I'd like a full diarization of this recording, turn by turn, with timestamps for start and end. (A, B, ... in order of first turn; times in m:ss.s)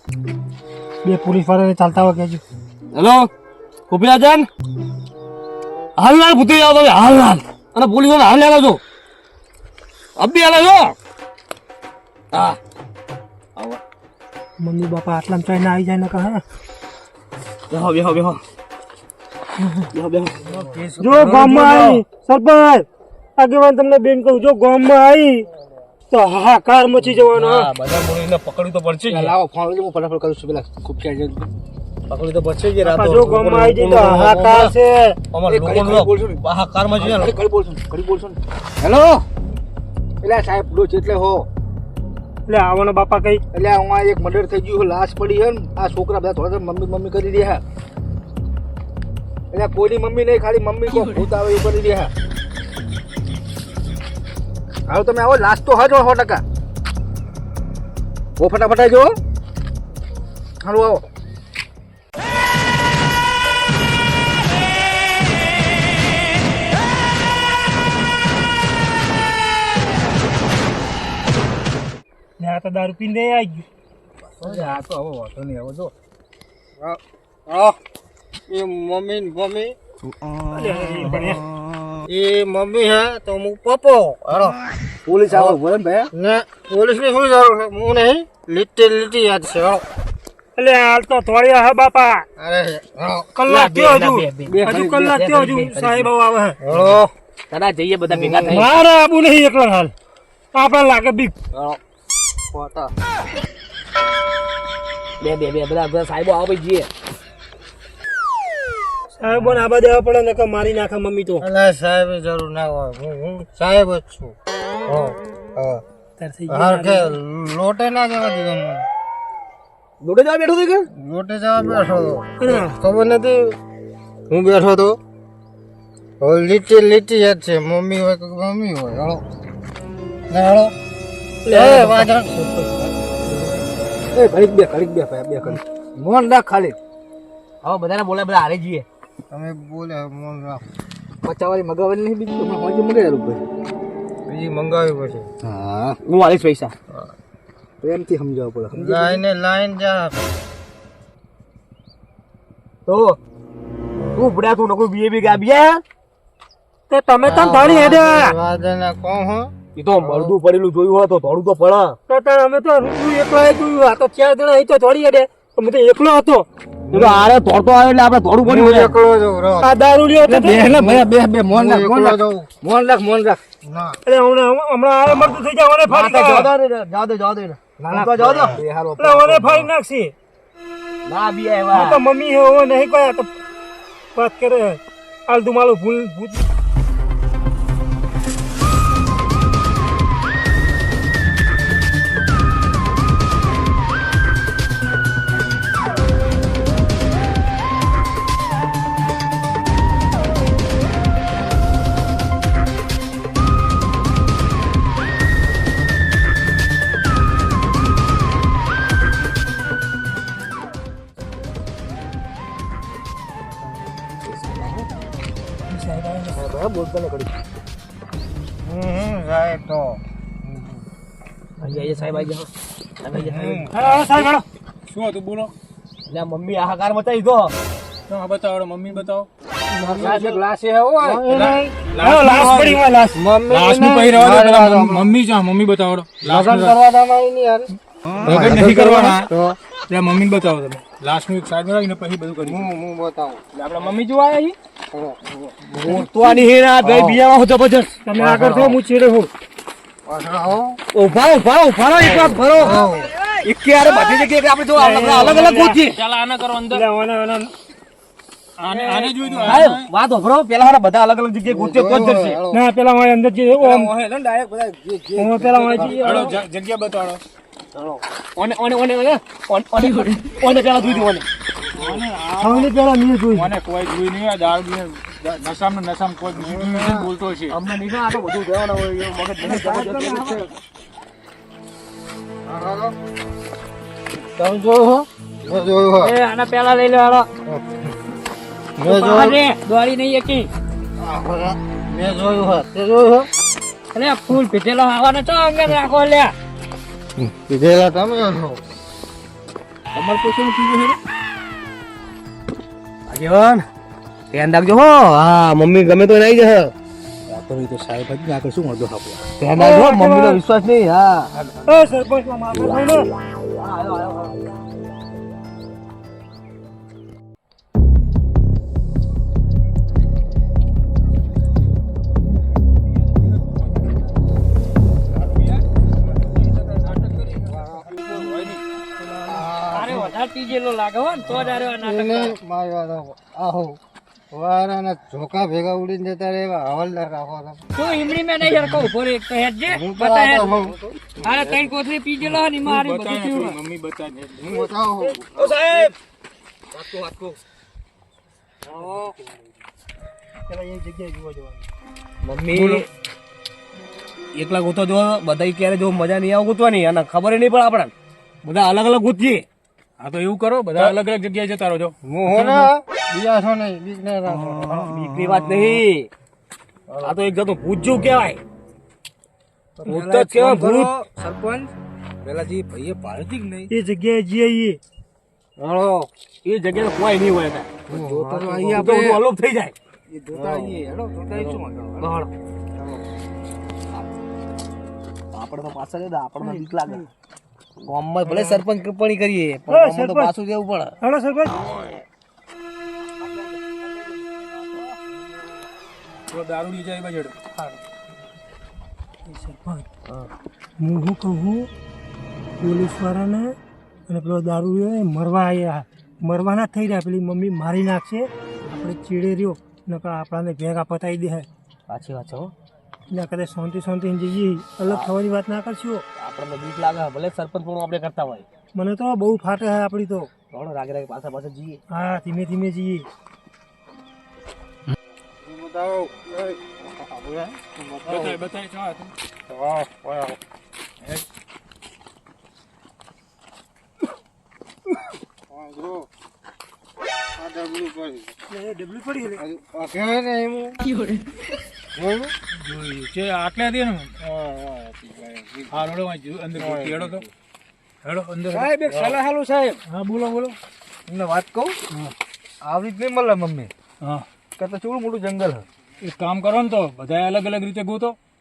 0:01.0-0:02.4 A
0:02.9-0:03.3 B
0:03.9-0:04.5 B
0:06.0-0:08.8 B
0:10.2-0:11.0 B
0:12.3-0:12.6 B
0:14.6-0:16.4 A
0:17.7-0:18.4 B
0:19.9-0:20.6 B
0:20.4-0:22.0 C
0:21.0-0:22.9 A
0:23.4-0:25.4 A
0:26.1-0:27.7 A
0:27.2-0:29.3 B
0:29.1-0:31.5 C
0:32.1-0:34.7 B
0:32.8-0:35.2 A
0:35.3-0:37.4 B
0:35.5-0:36.4 C
0:37.0-0:39.2 C
0:40.2-0:41.5 C
0:42.5-0:43.4 A
0:43.5-0:47.6 C
0:49.5-0:52.1 C
0:54.9-0:56.4 C
0:58.4-0:59.2 C
1:00.6-1:01.0 C
1:12.4-1:13.6 A
1:14.4-1:15.9 C
1:16.8-1:17.8 D
1:18.5-1:19.8 D
1:20.5-1:21.4 A
1:22.1-1:24.6 D
1:25.1-1:26.1 C
1:25.3-1:25.6 D
1:26.1-1:29.8 D
1:30.6-1:32.2 A
1:32.4-1:33.3 D
1:33.4-1:36.6 A
1:33.5-1:36.1 B
1:34.5-1:35.4 C
1:36.6-1:37.1 D
1:36.7-1:37.0 B
1:37.5-1:38.7 B
1:38.1-1:38.7 D
1:38.5-1:39.9 A
1:40.5-1:41.3 A
1:42.5-1:42.9 D
1:42.6-1:42.8 C
1:45.2-1:46.9 B
1:49.2-1:51.5 A
1:51.4-1:54.4 D
1:54.9-1:55.8 D
1:56.2-1:57.2 A
1:56.5-1:58.9 D
2:00.0-2:00.9 B
2:01.0-2:03.6 D
2:02.4-2:02.8 A
2:04.3-2:05.0 D
2:06.2-2:09.2 D
2:10.3-2:10.7 D
2:11.5-2:12.7 A
2:11.5-2:12.3 D
2:13.3-2:13.6 C
2:14.1-2:16.8 C
2:17.6-2:18.8 B
2:19.3-2:20.6 D
2:21.2-2:23.4 C
2:24.3-2:25.3 D
2:25.4-2:26.0 C
2:26.0-2:26.7 B
2:27.8-2:29.2 C
2:28.7-2:30.2 D
2:32.9-2:33.2 B
2:34.2-2:35.8 B
2:36.9-2:38.4 A
2:37.2-2:40.4 D
2:39.8-2:42.0 B
2:42.1-2:46.5 A
2:46.9-2:47.3 D
2:46.9-2:48.9 B
2:48.4-2:49.7 D
2:49.6-2:50.7 A
2:50.3-2:53.4 C
2:50.7-2:52.5 D
2:53.6-2:54.0 D
2:54.1-2:56.5 A
2:55.9-2:58.6 B
2:57.8-2:59.7 C
2:59.0-3:00.1 A
3:01.1-3:02.0 B
3:01.7-3:03.3 A
3:04.2-3:06.5 A
3:34.2-3:34.9 B
3:35.7-3:36.4 A
3:36.4-3:37.3 B
3:38.6-3:40.6 D
3:41.6-3:42.5 B
3:43.0-3:43.7 B
3:43.1-3:43.7 D
3:43.7-3:44.4 A
3:44.9-3:45.5 E
3:46.1-3:47.5 B
3:48.1-3:49.3 E
3:49.7-3:50.4 D
3:50.0-3:51.3 C
3:51.0-3:51.8 D
3:51.3-3:52.8 E
3:52.0-3:53.2 A
3:53.2-3:55.1 D
3:53.5-3:56.8 E
3:56.2-3:57.7 D
3:58.2-3:59.3 E
3:58.2-3:59.6 D
3:58.3-3:58.9 C
3:59.9-4:02.7 E
4:02.4-4:03.4 D
4:03.6-4:04.2 B
4:04.9-4:07.2 D
4:05.8-4:08.0 B
4:08.0-4:09.3 A
4:08.2-4:08.8 D
4:10.1-4:10.8 D
4:10.9-4:12.8 B
4:12.0-4:13.1 D
4:13.4-4:16.0 B
4:13.6-4:15.4 C
4:14.8-4:15.8 A
4:15.8-4:16.8 E
4:16.7-4:17.5 A
4:18.6-4:19.9 E
4:18.7-4:19.7 C
4:19.4-4:22.4 B
4:21.5-4:22.7 D
4:22.5-4:23.9 A
4:23.6-4:26.3 C
4:25.2-4:26.4 A
4:25.8-4:27.2 E
4:28.4-4:31.3 B
4:31.8-4:32.7 E
4:32.4-4:33.5 A
4:33.3-4:37.6 E
4:36.4-4:37.1 D
4:37.5-4:40.4 B
4:39.4-4:40.6 C
4:42.5-4:42.9 D
4:44.4-4:46.2 D
4:46.0-4:47.3 F
4:47.5-4:47.9 D
4:48.8-4:49.4 D
4:48.8-4:50.5 F
4:51.0-4:53.3 D
4:53.9-4:56.3 F
4:57.2-4:58.6 D
4:59.9-5:01.0 C
5:03.1-5:03.7 B
5:04.3-5:06.7 B
5:07.3-5:09.3 C
5:09.4-5:11.3 B
5:09.6-5:10.4 A
5:11.7-5:13.1 A
5:13.6-5:14.4 B
5:23.1-5:23.5 E
5:25.1-5:28.6 E
5:27.6-5:28.0 D
5:29.3-5:30.1 D
5:29.7-5:32.4 F
5:31.7-5:33.8 D
5:34.3-5:37.6 D
5:37.8-5:40.7 F
5:39.7-5:40.8 D
5:41.2-5:43.6 F
5:41.3-5:41.7 E
5:42.2-5:44.6 E
5:44.4-5:45.6 D
5:45.4-5:45.9 B
5:46.7-5:47.4 B
5:50.5-5:51.7 A
5:52.2-5:52.9 B
5:52.5-5:52.8 E
5:54.4-5:57.9 B
5:58.4-5:59.4 B
6:00.0-6:02.6 E
6:02.0-6:04.9 D
6:04.8-6:06.1 B
6:07.0-6:08.4 B
6:09.8-6:11.7 C
6:09.9-6:10.9 B
6:12.2-6:13.7 C
6:13.7-6:14.8 A
6:15.6-6:16.1 D
6:16.4-6:19.7 B
6:17.9-6:19.2 C
6:17.9-6:19.0 D
6:20.1-6:22.1 C
6:20.4-6:20.7 B
6:21.3-6:22.3 B
6:22.8-6:23.0 C
6:25.3-6:27.1 B
6:27.9-6:31.0 B
6:29.7-6:30.3 A
6:31.0-6:31.6 A
6:31.6-6:32.0 B
6:36.3-6:37.4 E
6:39.3-6:39.9 A
6:40.8-6:41.7 A
6:42.6-6:43.5 A
6:44.1-6:51.5 A
6:51.9-6:52.5 B
6:53.1-6:56.0 A
6:56.2-6:58.4 B
6:58.8-7:00.3 A
7:00.5-7:01.8 B
7:01.9-7:03.0 A
7:05.4-7:08.4 D
7:08.1-7:09.1 E
7:09.5-7:10.4 D
7:15.5-7:16.1 D
7:17.4-7:18.3 D
7:18.5-7:19.4 A
7:19.4-7:20.8 D
7:22.0-7:22.3 D
7:22.5-7:24.1 E
7:24.2-7:25.7 D
7:25.7-7:27.2 E
7:26.6-7:27.3 D
7:28.0-7:29.2 E
7:28.5-7:29.8 C
7:29.9-7:30.6 E
7:31.1-7:31.8 C
7:32.6-7:33.7 C
7:34.6-7:35.7 C
7:36.0-7:38.2 E